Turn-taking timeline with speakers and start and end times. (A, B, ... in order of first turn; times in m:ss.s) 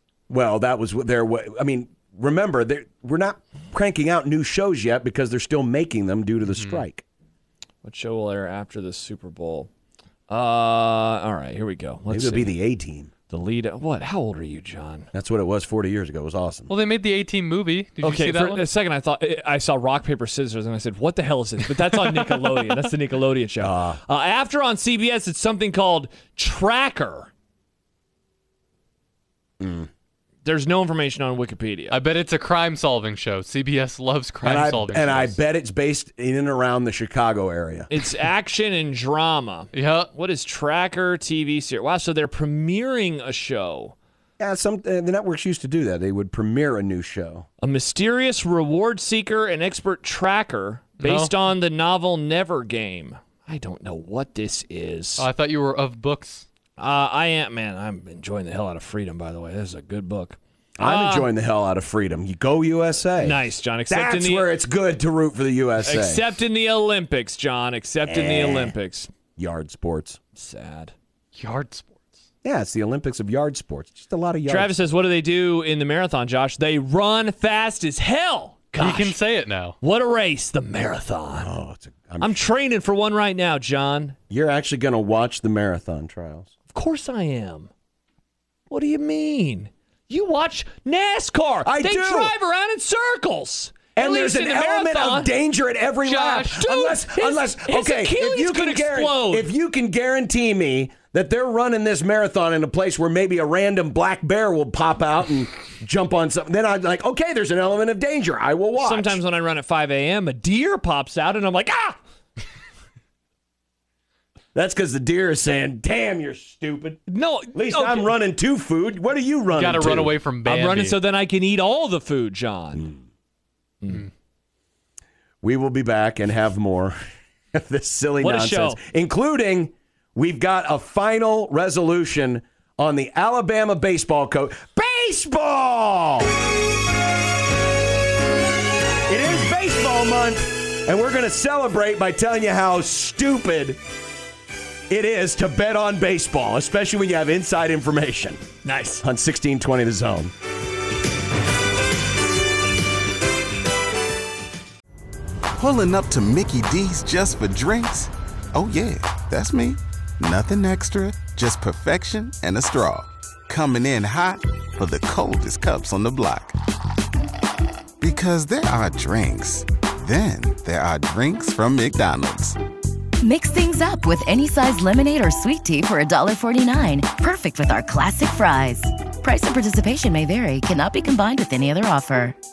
0:00.3-0:07.0 A
0:06.4-0:06.8 B
0:07.8-0:09.7 C
0:10.3-0:12.6 C
0:12.1-0:13.1 A
0:13.3-0:15.1 C
0:15.1-0:16.7 A
0:16.7-0:18.6 B
0:18.0-0:27.3 C
0:23.6-0:24.0 A
0:29.6-0:29.9 A
0:30.4-0:32.0 C
0:31.9-0:35.4 B
0:34.4-0:37.9 A
0:37.9-0:43.9 C
0:39.7-0:40.1 B
0:44.4-0:47.5 A
0:47.6-0:55.3 C
0:51.0-0:51.3 B
0:55.2-0:56.4 B
0:56.8-1:01.3 C
1:00.8-1:06.3 A
1:03.2-1:04.5 C
1:05.8-1:09.1 C
1:08.0-1:08.7 A
1:09.4-1:10.2 A
1:10.3-1:10.9 C
1:11.4-1:12.0 B
1:12.4-1:14.9 A
1:14.5-1:19.2 C
1:18.8-1:19.7 B
1:19.8-1:21.5 C
1:21.3-1:22.4 A
1:22.2-1:24.2 C
1:24.3-1:26.5 A
1:26.7-1:27.7 C
1:28.7-1:35.3 C
1:31.6-1:32.4 A
1:33.9-1:49.2 A
1:36.0-1:36.6 B
1:36.6-1:39.5 C
1:48.8-1:52.0 C
1:54.5-1:57.0 A
1:57.1-1:58.1 C
1:57.5-2:00.1 A
1:59.5-2:01.0 B
2:00.4-2:02.9 C
2:05.4-2:07.0 A
2:07.5-2:16.3 A
2:08.2-2:08.8 C
2:19.1-2:23.8 A
2:24.9-2:28.4 A
2:28.6-2:29.0 C
2:29.0-2:30.3 A
2:35.6-2:46.6 D
2:48.0-2:52.6 D
2:53.2-3:02.4 E